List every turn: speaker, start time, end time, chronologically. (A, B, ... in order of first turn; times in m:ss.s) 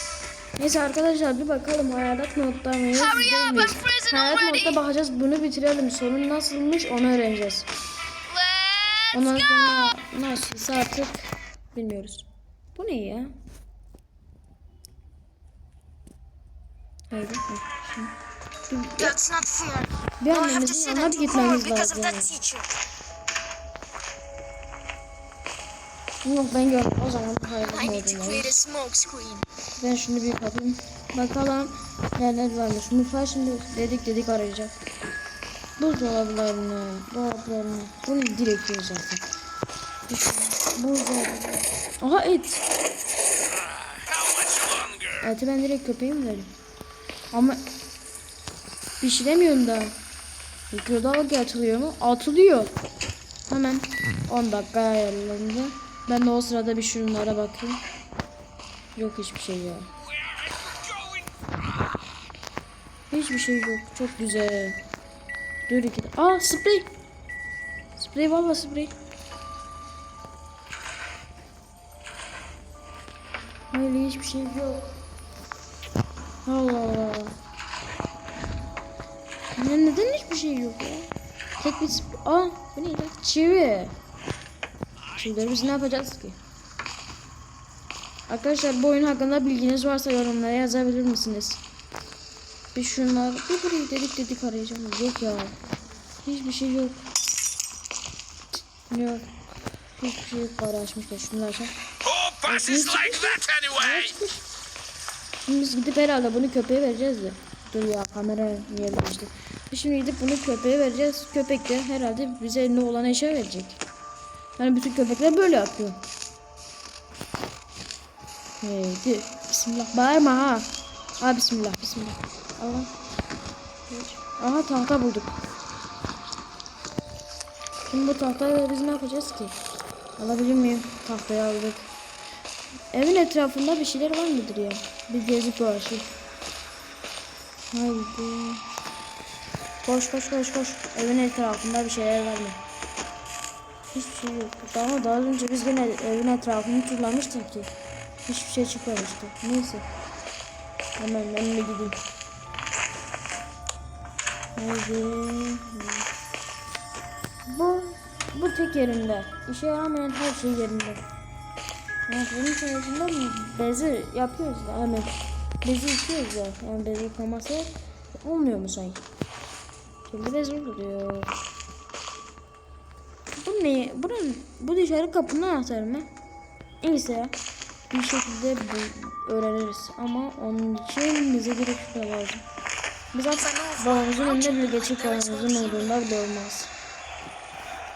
0:00.6-0:07.7 A
0:02.9-0:04.8 B
0:08.3-0:09.7 B
0:09.1-0:13.3 A
0:17.1-0:18.1 A
0:18.7-0:19.2 A
0:19.0-0:22.7 B
0:20.2-0:22.4 A
0:26.2-0:28.5 A
0:27.6-0:29.4 B
0:29.8-0:34.7 A
0:35.8-0:39.2 A
0:40.1-0:42.6 A
0:43.5-0:45.3 C
0:45.2-0:46.5 A
0:47.3-0:47.6 A
0:49.0-0:50.0 A
0:50.7-0:52.7 A
0:53.5-0:57.8 A
0:58.9-0:59.9 A
1:00.0-1:02.1 C
1:03.1-1:04.8 A
1:05.7-1:06.9 A
1:08.0-1:08.9 A
1:13.7-1:14.9 A
1:16.4-1:17.4 A
1:19.6-1:24.0 A
1:25.0-1:25.5 C
1:25.1-1:26.4 A
1:28.3-1:31.6 A
1:32.7-1:35.5 A
1:36.2-1:37.0 A
1:38.5-1:39.2 A
1:39.9-1:41.7 A
1:42.0-1:44.2 C
1:42.4-1:44.4 A
1:45.4-1:53.8 A
1:54.6-1:56.0 A
1:58.6-2:02.9 A
2:03.9-2:05.4 A
2:07.9-2:09.6 A
2:10.2-2:11.9 A
2:12.9-2:16.1 A
2:17.7-2:18.6 A
2:19.8-2:22.6 A
2:23.9-2:27.7 A
2:28.2-2:29.8 A
2:31.0-2:32.0 A
2:34.6-2:36.1 A
2:37.5-2:41.0 A
2:42.1-2:49.0 A
2:50.0-2:51.3 A
2:53.4-2:56.1 A
2:56.8-2:57.3 A
2:57.9-3:02.4 A
3:03.1-3:06.7 A
3:03.3-3:05.9 B